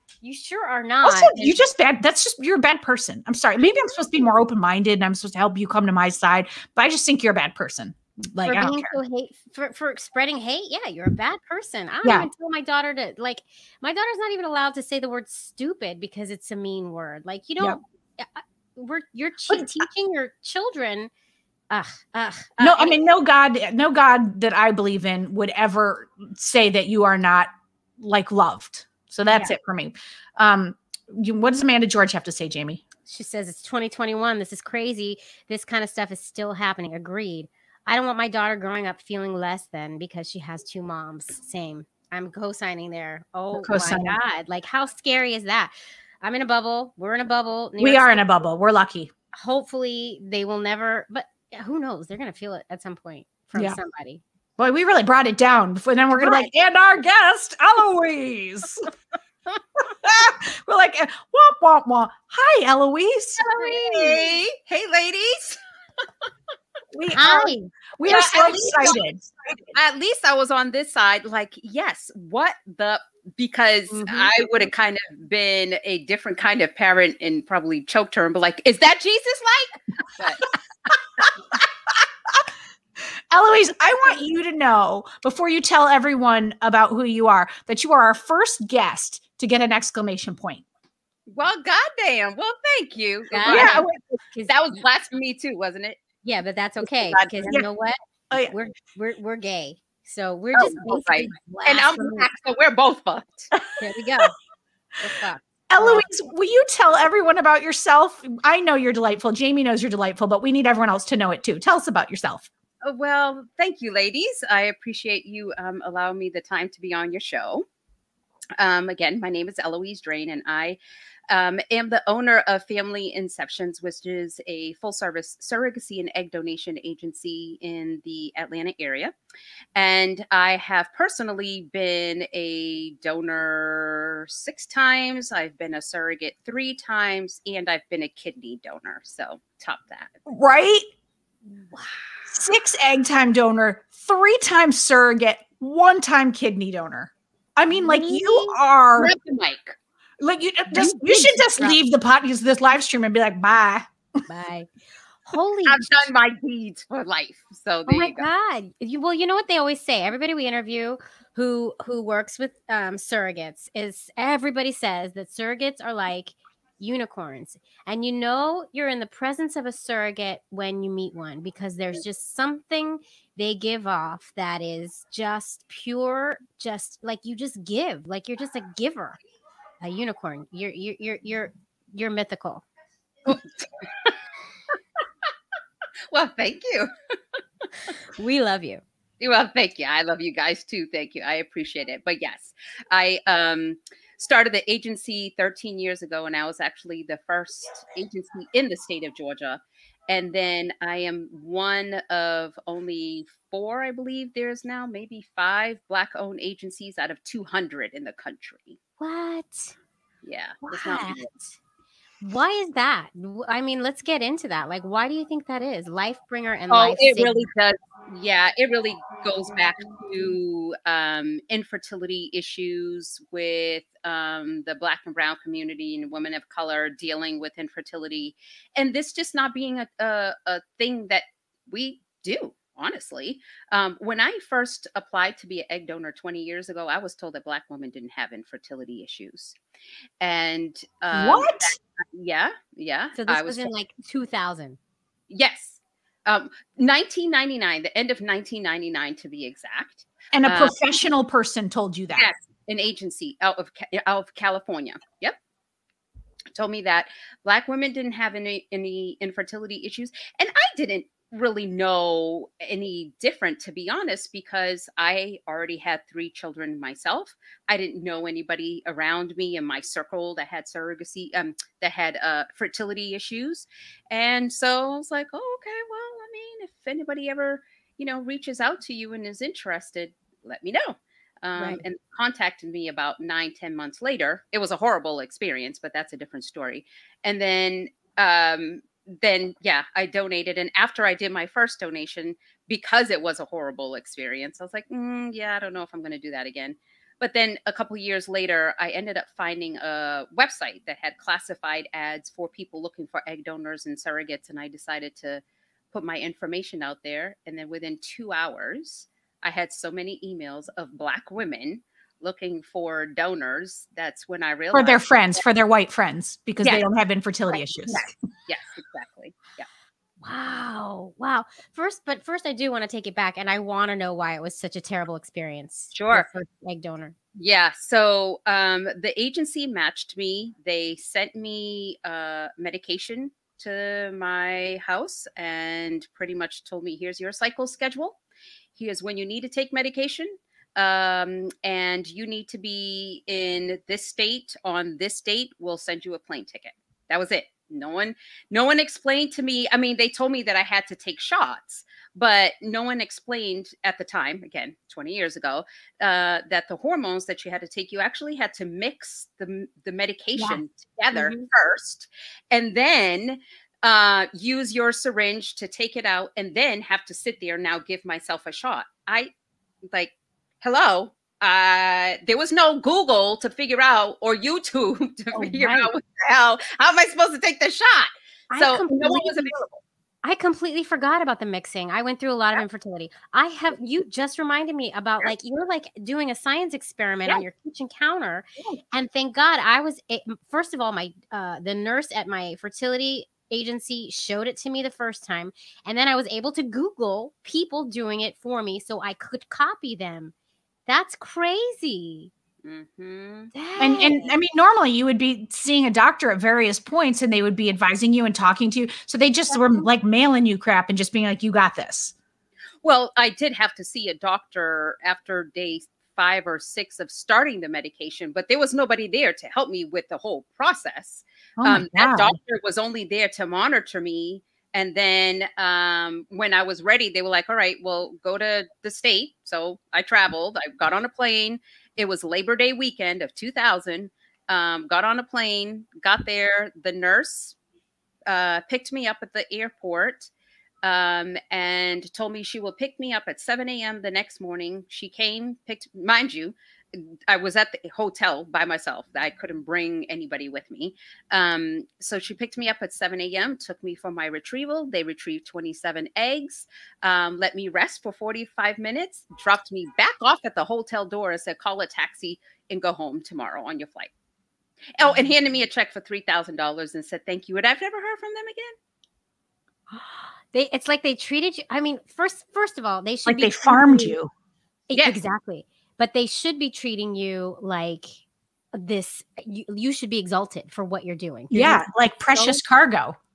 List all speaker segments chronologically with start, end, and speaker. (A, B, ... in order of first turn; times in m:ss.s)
0:00.2-0:01.6 A
0:01.0-0:09.0 B
0:08.4-0:21.1 A
0:12.0-0:12.3 B
0:21.7-0:23.0 A
0:22.6-0:32.8 B
0:29.3-0:29.5 A
0:33.1-0:48.3 A
0:43.5-0:44.2 B
0:47.8-0:49.1 B
0:49.3-0:54.2 A
0:54.6-0:58.9 B
0:56.2-0:56.5 A
0:59.8-1:04.2 B
1:03.4-1:05.6 C
1:06.9-1:09.3 B
1:07.1-1:07.7 A
1:08.1-1:09.0 C
1:09.6-1:20.5 C
1:13.9-1:14.5 A
1:23.3-1:30.6 B
1:31.3-1:33.8 C
1:33.3-1:34.6 A
1:33.5-1:34.2 B
1:34.5-1:36.0 C
1:36.2-1:42.3 A
1:36.8-1:37.5 C
1:40.6-1:43.5 C
1:43.8-1:44.4 A
1:45.0-1:46.1 A
1:45.7-1:52.5 B
1:52.8-1:57.7 C
1:58.6-2:09.1 C
2:09.8-2:20.1 C
2:20.3-2:20.9 B
2:21.7-2:22.0 A
2:22.3-2:29.1 B
2:27.7-2:28.6 A
2:29.0-2:29.8 C
2:30.2-2:33.9 B
2:30.7-2:31.8 A
2:34.3-2:34.7 A
2:35.2-2:36.0 A
2:35.7-2:38.3 C
2:37.9-2:59.2 A
2:59.8-3:02.6 A
3:03.3-3:04.1 C
3:06.1-3:06.9 C
3:07.9-3:08.8 A
3:09.2-3:28.8 C
3:29.0-3:29.8 A
3:30.2-3:31.3 C
3:30.6-3:31.5 A
3:32.2-3:37.5 A
3:36.7-3:59.6 C
4:00.2-4:03.7 C
4:01.1-4:01.8 B
4:03.2-4:04.8 A
4:05.3-4:10.8 C
4:10.3-4:12.3 B
4:12.2-4:15.4 C
4:16.5-5:15.4 C
4:41.6-4:41.8 A
5:14.7-5:18.1 B
5:17.5-5:19.7 C
5:20.2-5:27.1 A
5:25.9-5:26.3 C
5:27.4-5:38.2 C
5:38.8-6:09.3 C
6:00.4-6:01.5 A
6:09.9-6:19.6 C
6:15.3-6:15.9 A
6:18.5-6:19.6 A
6:20.2-6:40.3 A
6:40.9-6:42.3 A
6:42.6-6:43.5 C
6:43.5-6:44.3 A
6:43.8-6:52.1 B
6:49.5-6:49.8 A
6:52.8-7:17.6 C
7:01.6-7:02.4 B
7:18.3-7:20.3 C
7:20.8-7:44.1 C
7:45.0-7:48.8 C
7:49.9-7:54.2 A
7:53.3-7:54.3 B
7:54.9-7:58.2 A
7:54.9-7:55.2 C
7:58.7-8:02.6 A
8:01.5-8:03.2 B